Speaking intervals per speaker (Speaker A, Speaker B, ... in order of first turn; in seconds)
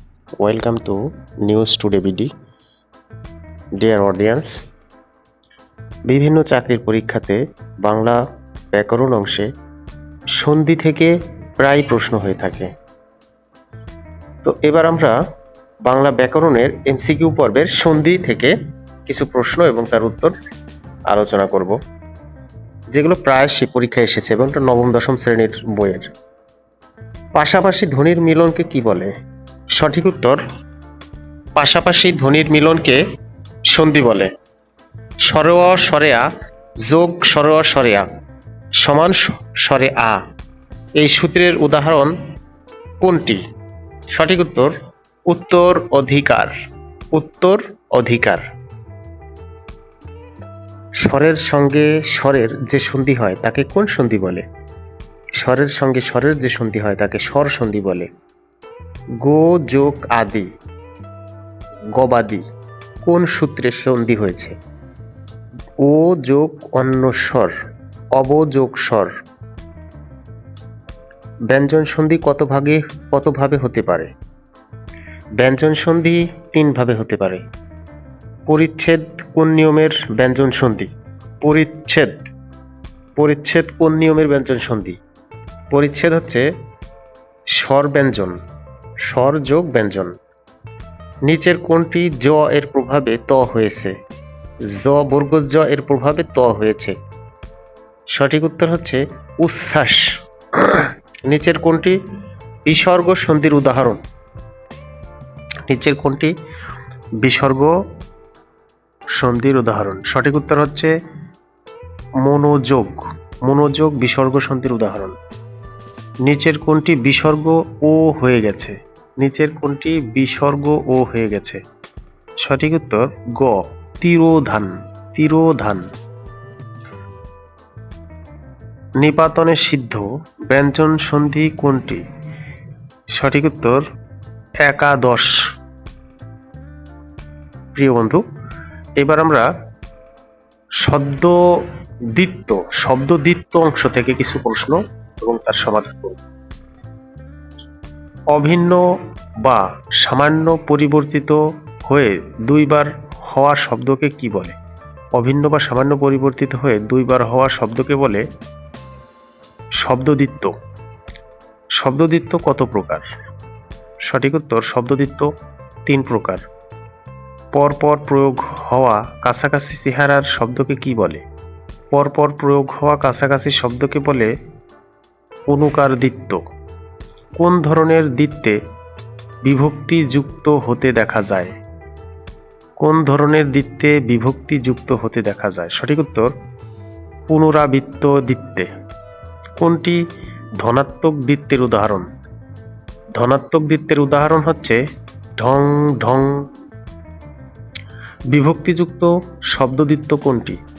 Speaker A: 0.4-2.3, 3.8-4.6, 6.1-8.2, 8.7-9.5, 10.3-12.7, 14.4-15.2, 15.9-18.6, 19.1-20.4, 21.1-21.8, 22.9-26.1, 27.4-29.1, 29.7-30.4, 31.6-33.0, 33.7-34.3, 35.2-36.3, 36.9-38.1, 38.8-40.2, 41.0-42.1, 43.0-43.4, 44.1-44.7, 45.3-46.5, 47.1-48.4, 51.0-54.5, 55.4-58.1, 59.2-60.5, 62.0-62.4, 63.0-64.6, 65.8-67.5, 68.2-69.1, 71.5-74.1, 75.4-77.4, 78.5-80.9, 81.4-82.2, 83.2-85.0, 85.7-86.5, 87.5-88.4, 89.0-90.1, 91.3-93.9, 94.7-97.0, 98.1-102.0, 102.7-104.0, 105.7-106.3, 107.2-107.8, 109.2-110.9, 112.2-115.2, 116.2-121.6, 122.4-125.8, 129.0-132.0, 133.1-133.8, 134.6-135.4, 137.8-138.2, 139.0-139.5, 140.8-141.4, 142.1-146.2, 148.3-154.6, 155.2-158.2, 159.8-160.5, 161.8-163.1, 164.1-165.3, 165.9-166.4, 167.5-171.2, 171.9-174.3, 175.5-176.4, 177.4-178.6, 179.4-181.5, 182.8-186.3, 187.3-188.7, 189.6-190.0, 190.6-192.1, 193.2-194.8, 195.4-196.5, 198.3-200.6